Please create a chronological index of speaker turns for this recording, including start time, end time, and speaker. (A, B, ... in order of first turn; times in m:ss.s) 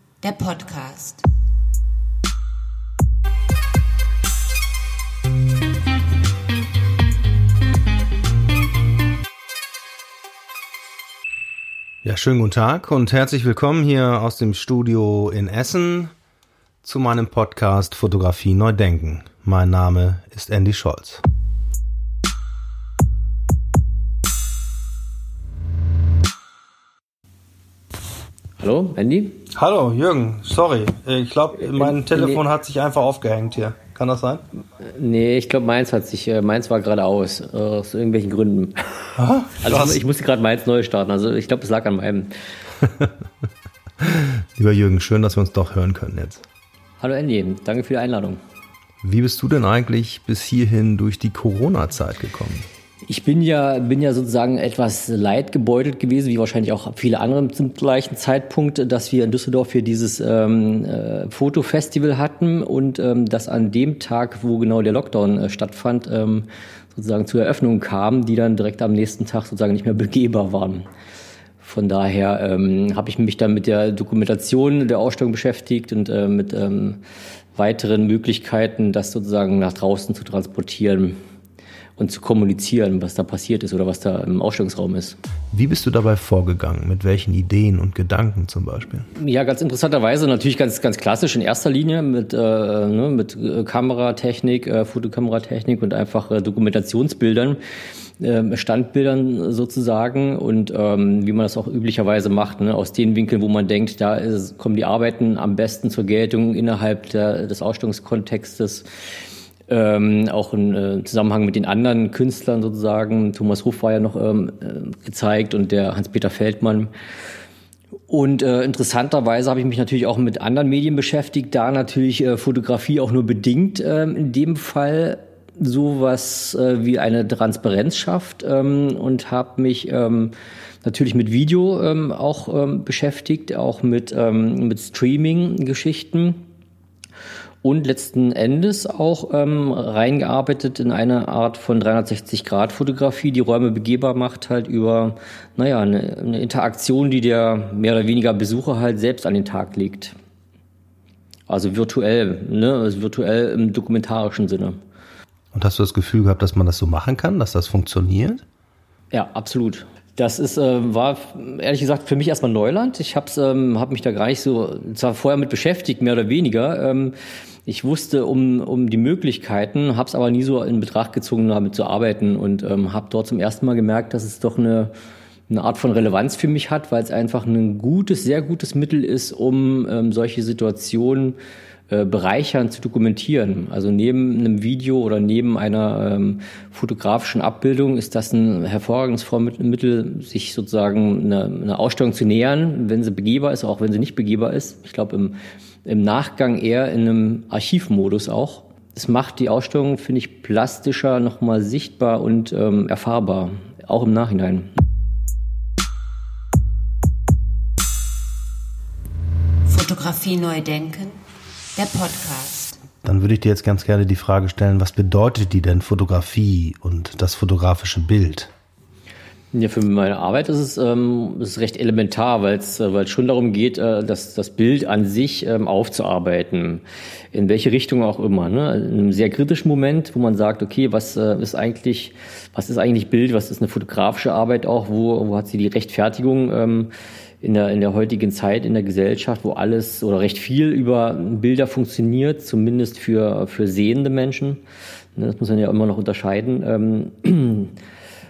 0:00.2-0:01.2 A
0:12.0-0:16.1 B
0:16.8-0:21.2 B
0:28.6-0:29.4 C
0:29.5-0:34.4 B
0:31.8-0:32.4 C
0:34.8-0:38.9 C
0:39.2-0:40.0 B
0:39.6-0:42.3 C
0:44.0-0:46.4 B
0:47.0-0:48.4 C
0:49.0-0:52.6 B
0:53.0-1:10.8 C
1:11.6-1:17.0 C
1:17.5-1:21.1 C
1:22.0-1:25.2 C
1:25.5-1:29.1 B
1:29.1-1:37.6 C
1:38.2-1:48.8 C
1:49.7-1:56.9 C
1:58.1-2:10.3 C
2:10.8-2:16.4 C
2:17.6-2:30.1 C
2:31.5-2:34.8 C
2:35.5-2:38.4 B
2:39.1-2:47.1 C
2:47.6-2:54.9 C
2:55.5-3:01.4 C
3:01.9-3:24.7 C
3:29.6-3:31.2 A
3:31.8-3:32.8 A
3:33.0-3:38.5 B
3:39.5-3:56.9 C
3:57.4-4:04.6 C
4:05.2-4:07.7 C